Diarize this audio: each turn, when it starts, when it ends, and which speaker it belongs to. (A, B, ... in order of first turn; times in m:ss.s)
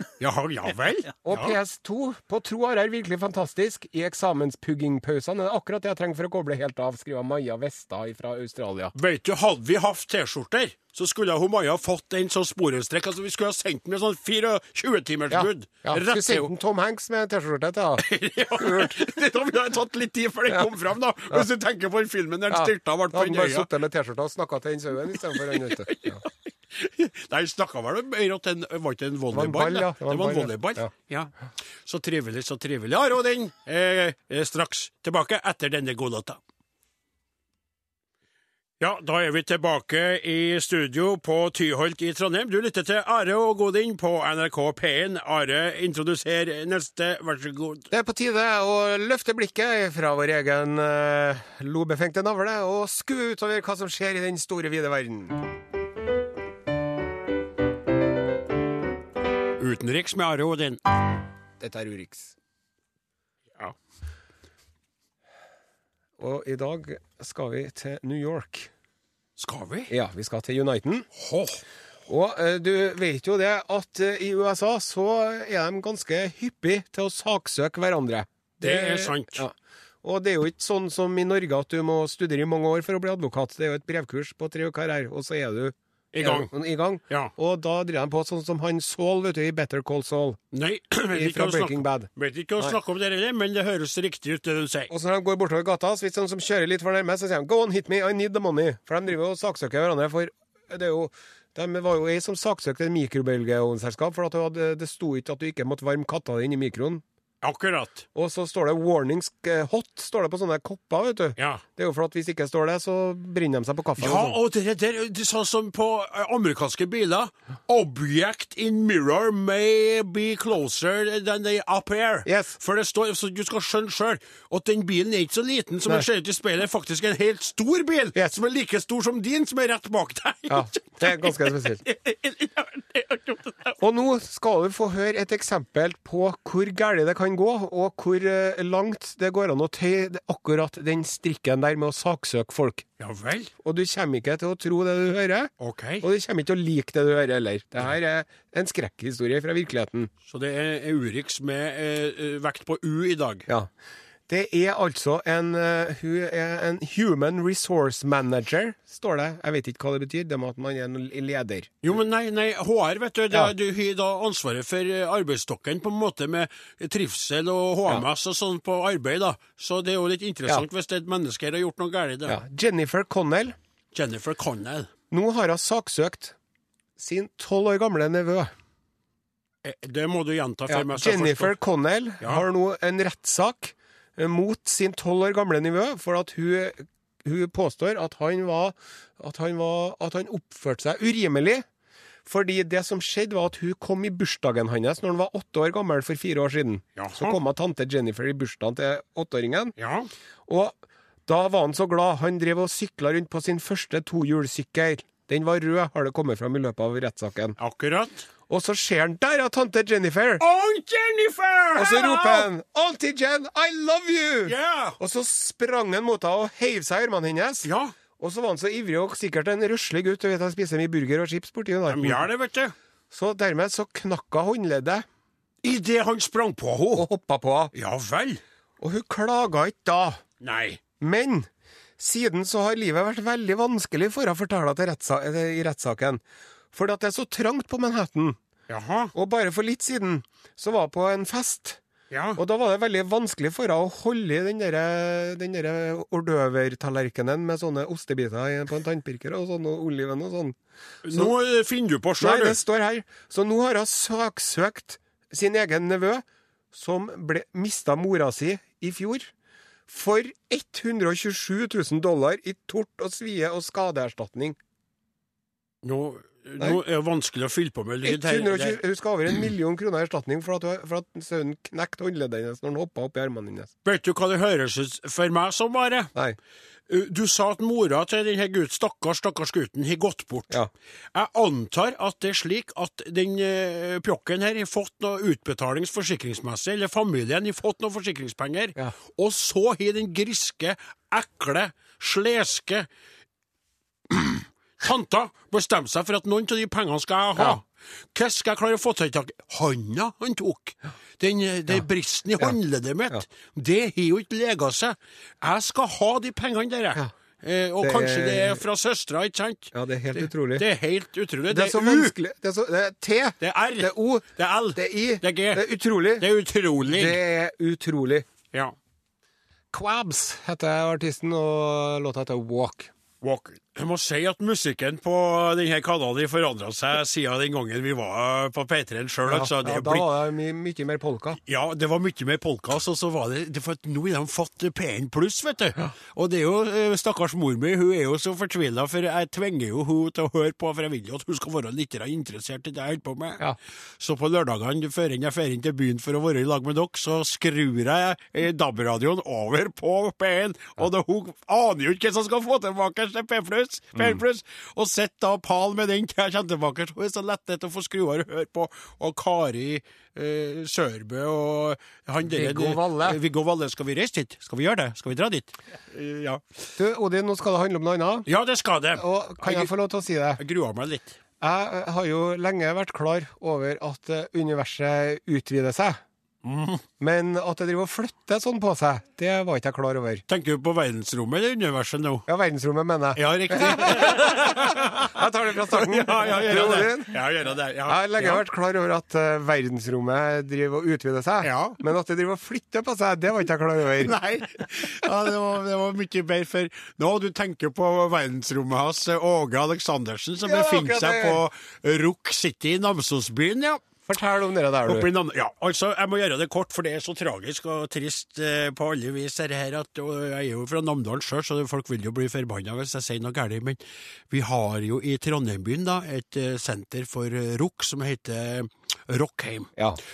0:00.2-0:01.6 A
0:01.2-0:08.9 B
0:08.9-0:16.5 A
0:15.3-0:19.0 B
0:18.0-0:23.7 A
0:22.5-0:26.2 B
0:25.4-0:31.3 A
0:29.3-0:30.9 B
0:31.8-0:36.4 A
0:38.8-0:47.9 A
0:47.9-0:55.4 B
0:59.6-1:00.8 A
1:01.6-1:02.3 B
1:06.2-1:08.7 B
1:09.4-1:09.9 A
1:09.9-1:11.1 B
1:11.1-1:11.6 A
1:12.1-1:30.4 B
1:18.6-1:19.4 A
1:26.1-1:26.5 A
1:30.5-1:34.9 A
1:31.1-1:32.8 B
1:34.9-1:47.0 B
1:47.4-1:48.0 A
1:48.1-1:54.4 B
1:51.4-1:51.6 A
1:54.0-2:13.8 A
2:02.2-2:02.5 B
2:10.5-2:11.8 B
2:13.8-2:22.9 B
2:23.0-2:23.5 A
2:23.6-2:30.1 B
2:25.6-2:26.0 A
2:30.3-2:33.5 A
2:34.3-2:41.7 B
2:41.8-2:52.4 A
2:52.3-2:53.6 B
2:53.9-2:54.9 A
2:55.1-2:56.4 B
2:57.0-2:58.5 B
2:59.6-3:01.5 A
3:00.7-3:11.6 B
3:12.2-3:19.7 B
3:17.0-3:17.4 A
3:19.8-3:20.1 A
3:20.5-3:27.6 B
3:27.6-3:28.3 A
3:28.5-3:30.4 B
3:30.4-3:32.5 A
3:31.8-3:42.3 B
3:34.4-3:35.0 A
3:37.6-3:37.9 A
3:41.9-3:42.7 A
3:43.1-3:45.0 B
3:45.6-3:47.1 A
3:46.9-3:47.7 B
3:47.7-3:48.4 A
3:48.8-3:50.2 B
3:50.4-3:50.8 A
3:51.0-3:56.2 B
3:56.7-3:58.4 B
3:58.7-3:59.1 A
3:59.1-4:01.8 B
4:02.1-4:02.4 A
4:02.4-4:10.6 B
4:11.0-4:12.6 A
4:12.2-4:19.3 B
4:19.9-4:24.6 B
4:25.8-4:28.8 A
4:28.0-4:33.7 B
4:33.8-4:36.1 A
4:36.9-4:40.6 A
4:41.1-4:52.9 A
4:54.1-5:12.1 A
5:07.8-5:08.6 B
5:09.7-5:10.6 B
5:11.5-5:16.3 B
5:13.4-5:17.2 A
5:16.9-5:18.2 B
5:19.7-5:22.9 B
5:23.2-5:30.1 A
5:29.2-5:31.4 B
5:31.4-5:43.4 A
5:44.0-6:06.4 A
6:02.2-6:03.2 B
6:06.8-6:08.3 B
6:08.2-6:09.7 A
6:09.0-6:10.4 B
6:10.4-6:11.2 A
6:11.4-6:16.0 B
6:16.4-6:16.8 A
6:17.0-6:20.2 B
6:20.3-6:22.3 A
6:22.3-6:27.1 B
6:23.1-6:25.1 A
6:25.7-6:28.4 A
6:27.9-6:34.1 B
6:31.4-6:31.8 A
6:34.0-6:43.8 A
6:40.4-6:41.4 B
6:44.1-6:45.1 B
6:44.8-6:53.8 A
6:54.3-6:59.7 A